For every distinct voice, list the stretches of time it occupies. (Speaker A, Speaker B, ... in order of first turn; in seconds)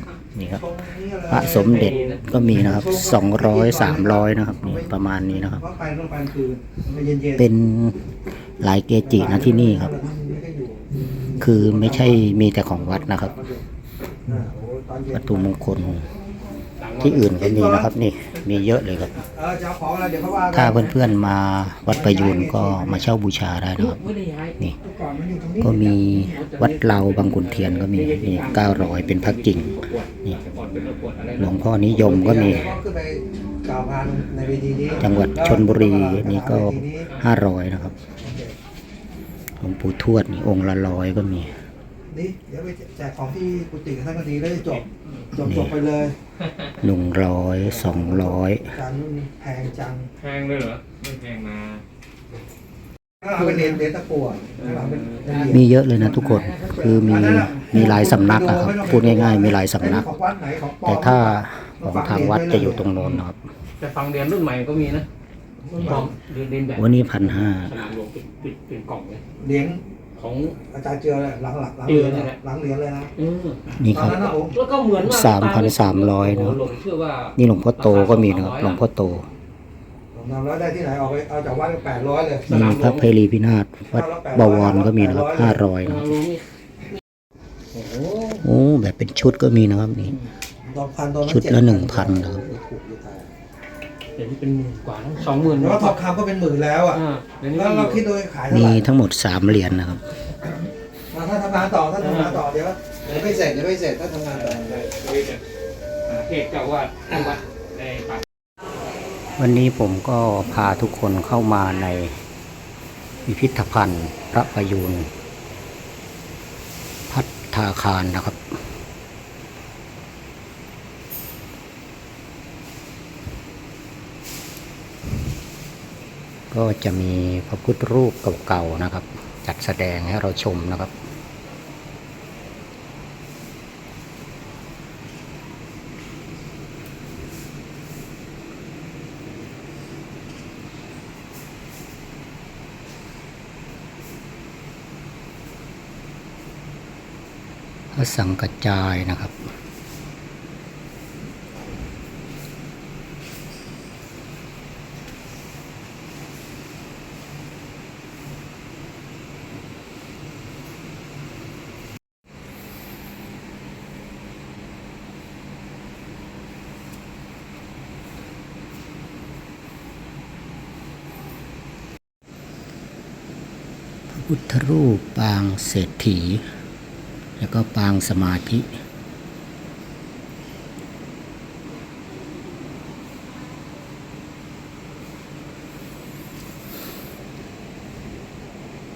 Speaker A: 0.3-0.7, 1.3-5.6, 7.3-8.0, 8.6-9.9, 11.4-13.3, 15.1-16.0, 17.0-19.2, 20.5-24.0, 25.6-29.7, 31.4-32.7, 35.0-38.0, 39.6-41.5, 45.5-45.7, 46.8-48.7, 55.5-60.1, 60.9-63.4, 65.8-66.1, 66.8-67.8, 73.8-74.4, 75.0-76.6, 77.4-79.3, 82.5-86.1, 88.4-90.2, 91.3-92.4, 98.5-100.0, 109.4-112.2, 113.2-115.1, 117.1-118.4, 126.5-130.9, 147.9-149.5, 174.1-176.4, 177.4-178.8
Speaker B: 0.6-7.5, 9.1-10.9, 11.4-13.7, 14.3-15.7, 17.4-17.9, 19.2-20.9, 21.9-23.1, 24.8-26.0, 32.2-37.1, 38.2-38.5, 42.1-46.2, 47.9-50.1, 53.2-62.9, 65.8-66.0, 69.4-69.8, 70.7-73.1, 73.9-74.6, 80.1-82.6, 83.9-85.6, 90.7-93.3, 95.5-97.0, 97.5-98.9, 101.1-104.7
Speaker C: 1.5-2.2, 16.8-17.3, 23.8-24.6, 26.1-32.7, 50.2-51.8, 53.5-53.7, 54.6-55.5, 56.2-56.6, 63.8-65.1, 65.7-69.2, 70.2-70.6, 71.9-72.4, 73.2-78.8, 82.5-83.1, 85.8-86.4, 87.7-88.4, 94.2-96.0, 96.9-98.0, 102.0-102.4, 104.3-105.4, 106.1-108.2